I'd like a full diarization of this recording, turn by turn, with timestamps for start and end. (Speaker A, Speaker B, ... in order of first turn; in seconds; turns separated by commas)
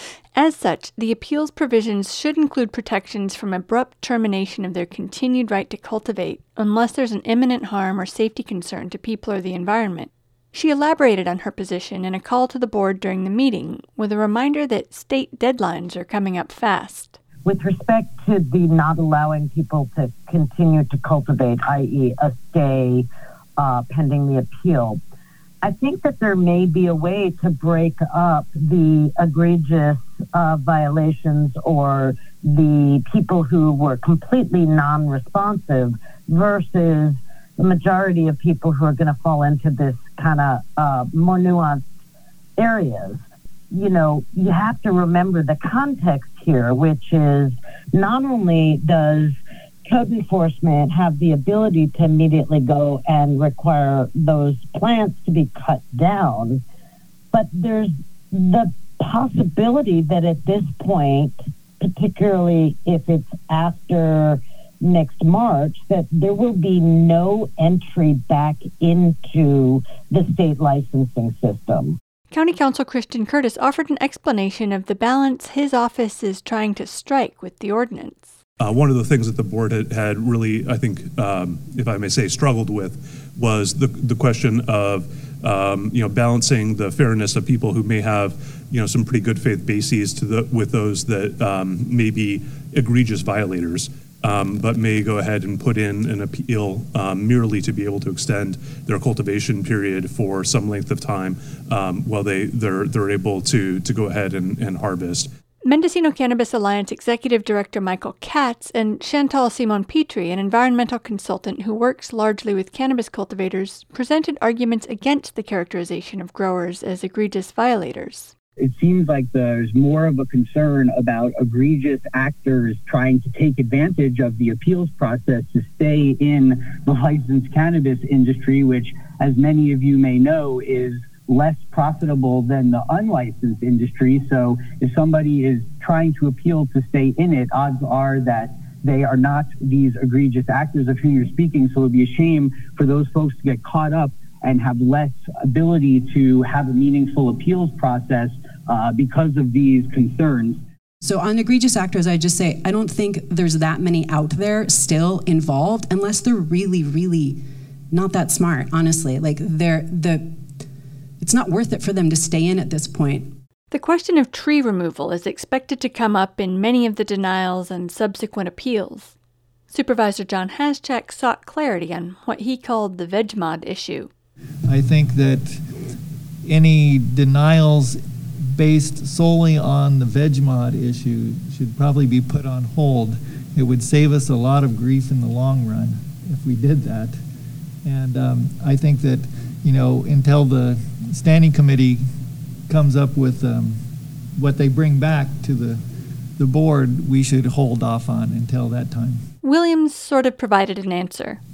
Speaker A: 0.3-17.2, Speaker B: 17.4-25.0, Speaker B: 25.6-41.9, Speaker B: 42.6-56.6, Speaker B: 57.3-72.0, Speaker A: 72.3-78.3, Speaker C: 78.6-105.3, Speaker A: 105.7-118.3, Speaker D: 118.6-150.6, Speaker E: 151.0-157.4, Speaker E: 157.9-160.3, Speaker E: 161.2-163.3, Speaker A: 163.7-169.2, Speaker A: 169.7-174.1, Speaker F: 174.7-175.6, Speaker F: 176.4-178.0, Speaker F: 178.5-187.2, Speaker F: 187.8-192.0, Speaker F: 192.7-193.8, Speaker F: 194.4-195.8, Speaker F: 196.4-199.2, Speaker A: 199.4-201.4